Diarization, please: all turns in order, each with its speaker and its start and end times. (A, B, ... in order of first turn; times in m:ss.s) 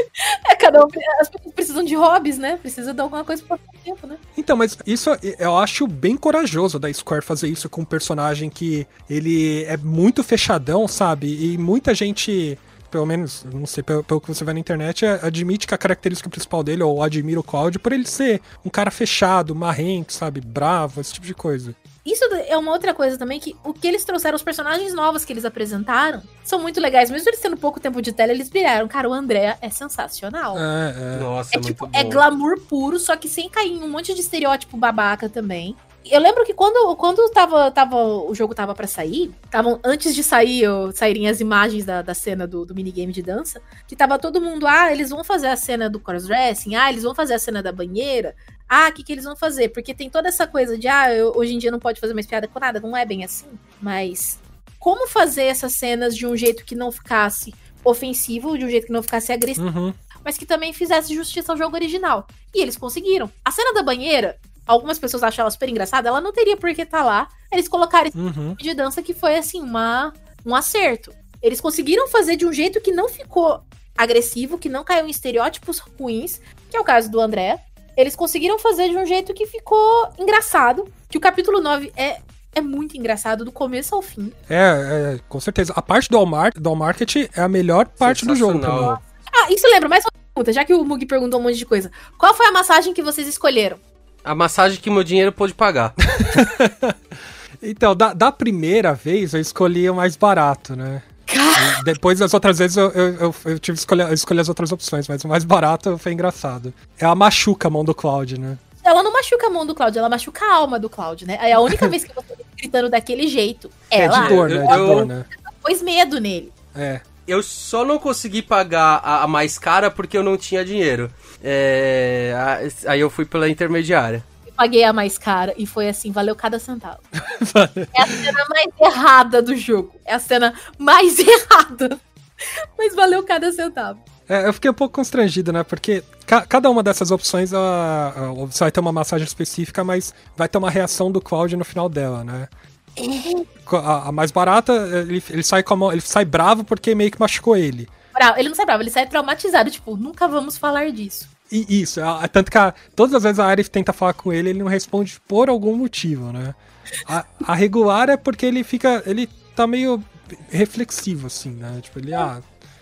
0:00.2-0:04.2 A
0:04.4-0:21.8 B
0:22.0-0:30.6 A
0:30.5-0:31.3 B
0:31.1-0:32.2 C
0:31.5-0:59.6 A
0:59.6-1:00.0 B
1:00.2-1:24.3 A
1:08.1-1:08.6 B
1:24.5-1:29.0 B
1:28.0-1:29.0 C
1:29.3-1:33.8 A
1:34.2-1:36.0 C
1:36.2-1:37.0 B
1:37.6-1:48.6 B
1:41.3-1:41.9 A
1:48.8-1:56.5 A
1:53.9-1:55.3 B
1:54.1-1:55.1 C
1:56.7-1:57.0 B
1:57.3-2:04.2 C
2:04.5-2:07.0 A
2:07.2-2:08.3 B
2:07.9-2:12.0 A
2:12.8-2:14.0 A
2:14.3-2:22.5 B
2:23.0-2:23.4 A
2:23.6-2:27.9 B
2:28.1-2:31.3 A
2:31.5-2:42.5 B